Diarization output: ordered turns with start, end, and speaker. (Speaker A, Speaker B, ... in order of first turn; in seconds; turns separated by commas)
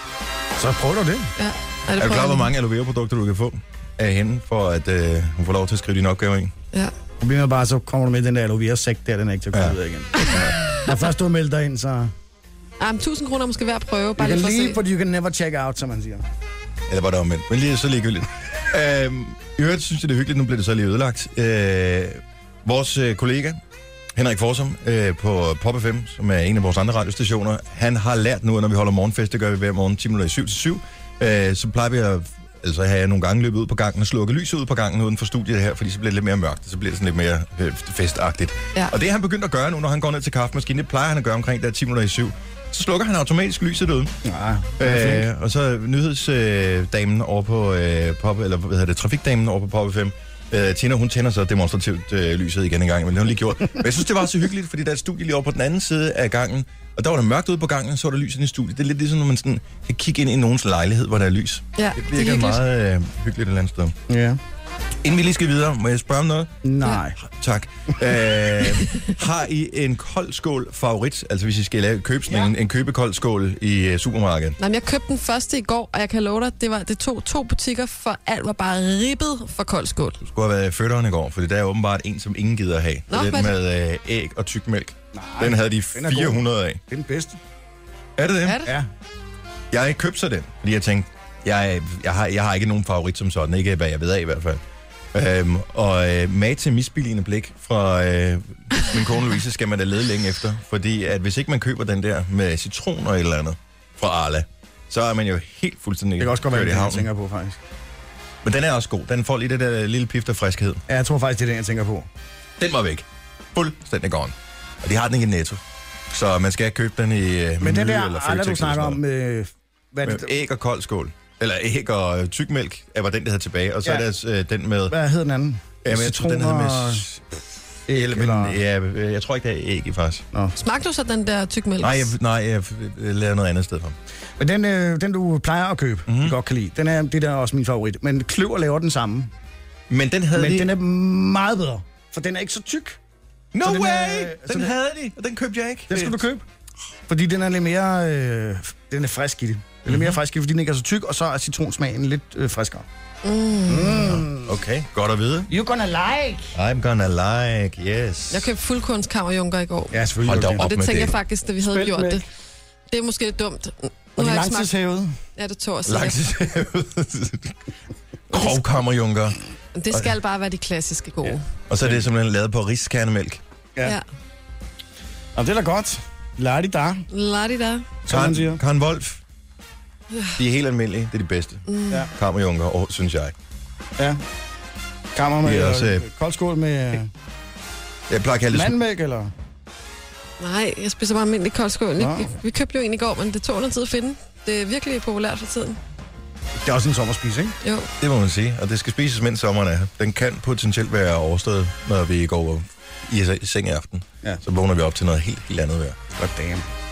Speaker A: 0.6-1.3, Speaker B: 1.4-2.5, Speaker C: 2.0-6.5, Speaker A: 7.2-12.1, Speaker C: 9.5-10.6, Speaker B: 12.8-14.8, Speaker A: 14.2-16.2, Speaker C: 16.9-23.6, Speaker C: 24.2-44.2, Speaker A: 44.2-45.3, Speaker C: 44.8-64.0, Speaker B: 61.8-62.6, Speaker A: 64.1-64.4, Speaker C: 65.0-66.5, Speaker A: 66.6-67.2, Speaker C: 67.2-74.6, Speaker B: 74.6-80.2, Speaker C: 80.2-86.8, Speaker B: 83.1-83.5, Speaker A: 85.1-87.4, Speaker C: 88.2-88.7, Speaker B: 88.4-88.7, Speaker C: 89.7-94.6, Speaker C: 95.1-107.1, Speaker A: 106.2-107.6, Speaker C: 108.4-110.8, Speaker A: 110.9-112.1, Speaker C: 112.6-119.0, Speaker A: 117.6-120.3, Speaker C: 120.0-125.0, Speaker A: 124.9-127.0, Speaker C: 125.8-127.2, Speaker A: 127.9-128.6, Speaker C: 127.9-130.2, Speaker B: 130.6-132.1, Speaker C: 131.8-134.0, Speaker A: 134.4-139.3, Speaker C: 136.1-136.4, Speaker C: 139.9-140.7, Speaker A: 140.3-143.0, Speaker C: 143.5-146.2, Speaker A: 143.6-144.7, Speaker A: 145.9-146.4, Speaker A: 147.1-152.9, Speaker C: 149.9-150.2, Speaker B: 153.2-154.2, Speaker A: 153.7-154.5, Speaker C: 154.3-155.5, Speaker A: 155.5-156.6, Speaker C: 156.6-158.5, Speaker B: 158.3-160.0, Speaker A: 159.9-160.7, Speaker C: 160.2-161.2, Speaker B: 160.6-162.2, Speaker A: 161.6-162.2, Speaker B: 162.9-164.7, Speaker A: 164.2-165.2, Speaker B: 165.4-166.2, Speaker C: 165.9-167.6, Speaker C: 168.3-169.4, Speaker B: 168.3-168.6, Speaker B: 169.8-171.4, Speaker A: 171.2-172.0, Speaker C: 171.7-173.4, Speaker A: 175.4-177.0, Speaker B: 177.1-177.9, Speaker A: 178.1-178.6, Speaker C: 178.1-179.2, Speaker C: 180.4-183.3, Speaker B: 181.7-182.1, Speaker A: 185.2-187.1, Speaker C: 185.4-186.1, Speaker C: 188.1-188.8, Speaker A: 188.5-189.3, Speaker B: 190.4-195.8, Speaker A: 192.0-192.3, Speaker A: 196.6-197.6, Speaker B: 197.6-197.9, Speaker C: 198.0-206.0, Speaker A: 206.2-206.7